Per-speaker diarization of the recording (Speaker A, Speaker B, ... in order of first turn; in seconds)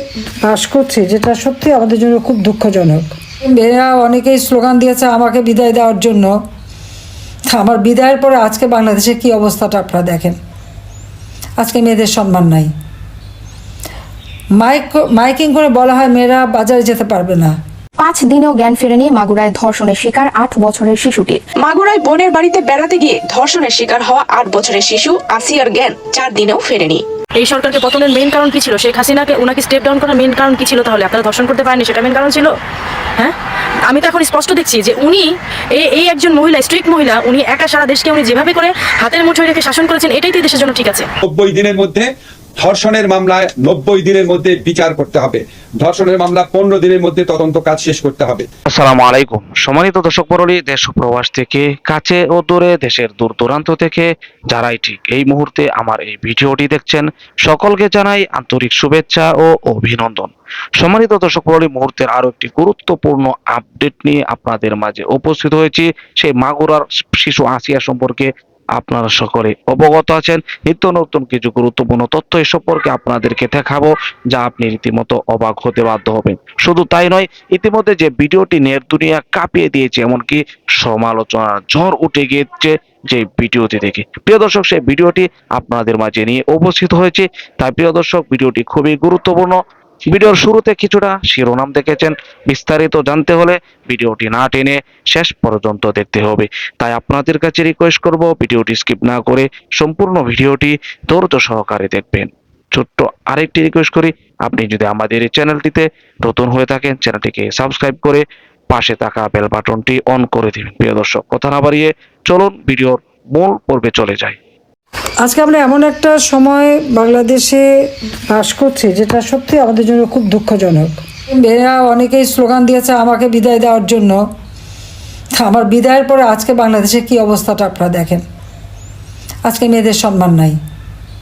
Speaker A: 0.4-6.3, 7.5-10.3, 11.6-12.7, 14.6-17.5, 115.2-117.6, 118.3-124.2, 125.4-128.2, 129.4-130.6
Speaker B: 18.0-21.5
Speaker C: 21.6-27.0
Speaker D: 27.4-32.5, 33.9-41.0
Speaker E: 41.2-48.5
Speaker F: 48.7-114.4